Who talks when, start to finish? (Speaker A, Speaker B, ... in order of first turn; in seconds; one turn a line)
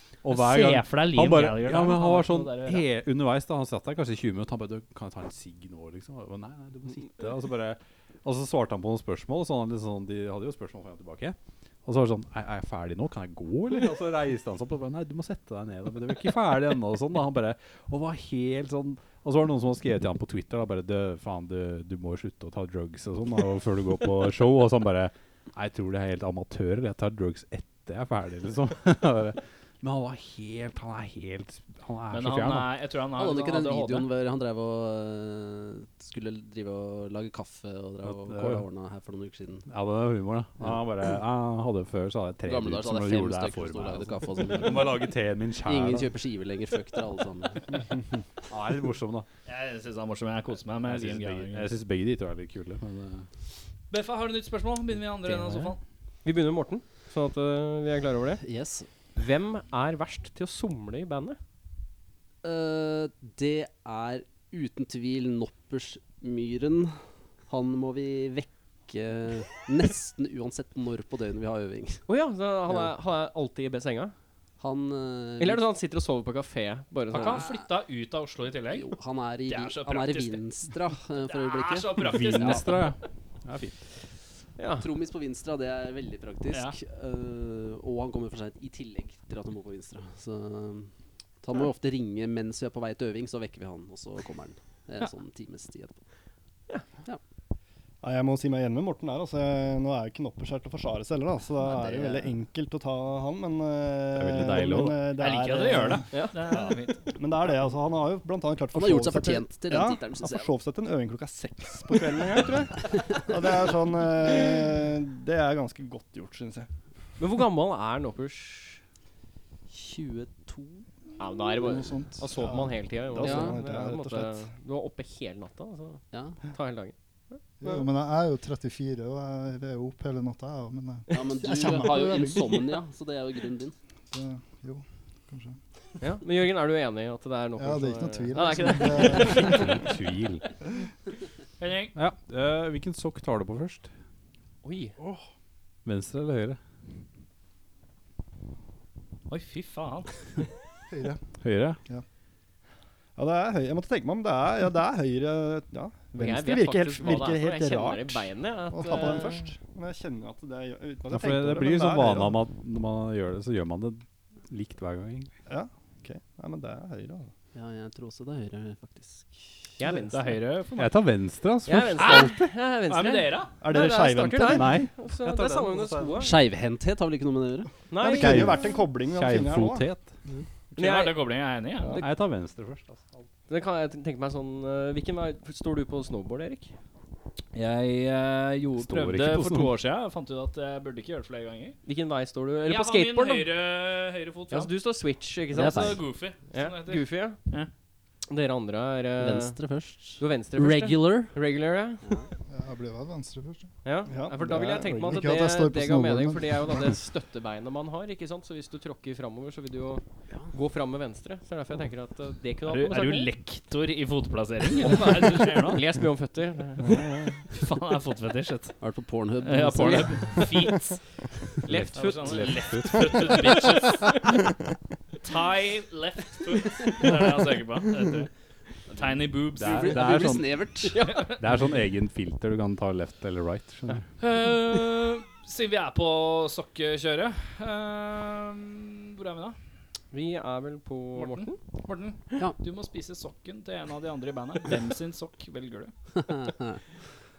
Speaker A: 0.2-32.7
Speaker B: 0.3-2.9
Speaker B: 32.1-34.1
Speaker C: 33.1-39.7
Speaker A: 38.0-38.6
Speaker A: 39.7-46.1
Speaker C: 42.5-45.1
Speaker C: 45.6-47.8
Speaker A: 48.5-49.3
Speaker B: 49.5-51.7
Speaker A: 50.9-53.3
Speaker B: 53.9-55.8
Speaker D: 56.2-58.4
Speaker C: 58.4-58.9
Speaker D: 59.1-61.4
Speaker C: 62.4-72.0
Speaker D: 72.1-74.2
Speaker C: 74.6-75.7
Speaker D: 75.4-77.5
Speaker B: 77.1-78.9
Speaker C: 77.3-77.6
Speaker C: 78.7-82.6
Speaker B: 79.5-80.4
Speaker B: 81.2-83.0
Speaker A: 82.0-83.8
Speaker D: 84.6-84.9
Speaker C: 84.8-90.9
Speaker C: 91.4-96.0
Speaker E: 98.0-116.7
Speaker C: 101.6-102.3
Speaker A: 104.2-105.0
Speaker B: 105.2-107.0
Speaker C: 108.7-110.5
Speaker D: 117.2-118.8
Speaker C: 119.7-120.9
Speaker D: 121.2-126.9
Speaker F: 121.6-122.7
Speaker E: 122.4-124.5
Speaker C: 123.2-123.6
Speaker C: 126.1-126.4
Speaker F: 127.6-132.7
Speaker C: 131.1-133.8
Speaker F: 134.1-135.6
Speaker D: 136.0-139.8
Speaker F: 137.6-139.7
Speaker A: 139.5-140.4
Speaker B: 141.6-141.9
Speaker A: 141.9-143.9
Speaker D: 144.6-145.0
Speaker A: 145.8-146.6
Speaker B: 149.3-150.1
Speaker F: 150.9-151.2
Speaker A: 151.4-151.8
Speaker E: 153.2-162.4
Speaker D: 156.2-159.4
Speaker A: 161.1-165.3
Speaker E: 165.5-167.3
Speaker C: 167.5-169.7
Speaker D: 169.8-170.3
Speaker B: 170.0-171.0
Speaker A: 170.8-172.5
Speaker D: 171.7-176.4
Speaker B: 172.0-173.5
Speaker E: 173.6-174.8
Speaker A: 174.5-176.2
Speaker C: 176.2-177.7
Speaker D: 177.9-178.6
Speaker E: 178.0-179.9
Speaker A: 178.0-180.1
Speaker D: 180.8-181.3
Speaker B: 180.8-182.0
Speaker A: 182.0-183.3
Speaker D: 183.5-186.8
Speaker B: 187.5-191.8
Speaker A: 188.8-189.7
Speaker D: 191.8-193.5
Speaker B: 192.7-194.7
Speaker D: 194.5-197.4
Speaker C: 195.5-196.1
Speaker B: 195.5-197.7
Speaker D: 198.3-199.6
Speaker C: 199.2-201.4
Speaker D: 200.2-202.1
Speaker C: 202.0-202.3
Speaker F: 202.5-203.7
Speaker D: 203.8-213.3
Speaker E: 204.1-205.1
Speaker F: 204.9-206.9
Speaker B: 212.7-215.8
Speaker D: 215.7-217.1
Speaker E: 216.9-217.3
Speaker B: 217.5-218.8
Speaker C: 218.8-220.5
Speaker B: 219.4-221.0
Speaker A: 221.7-223.4
Speaker D: 221.7-224.2
Speaker B: 221.9-224.2
Speaker B: 225.2-228.3
Speaker B: 228.9-230.2
Speaker A: 229.6-234.1
Speaker C: 229.6-231.0
Speaker D: 230.9-231.4
Speaker B: 231.0-231.4
Speaker B: 234.2-239.6
Speaker D: 240.1-241.6
Speaker B: 241.2-245.9
Speaker C: 246.2-246.8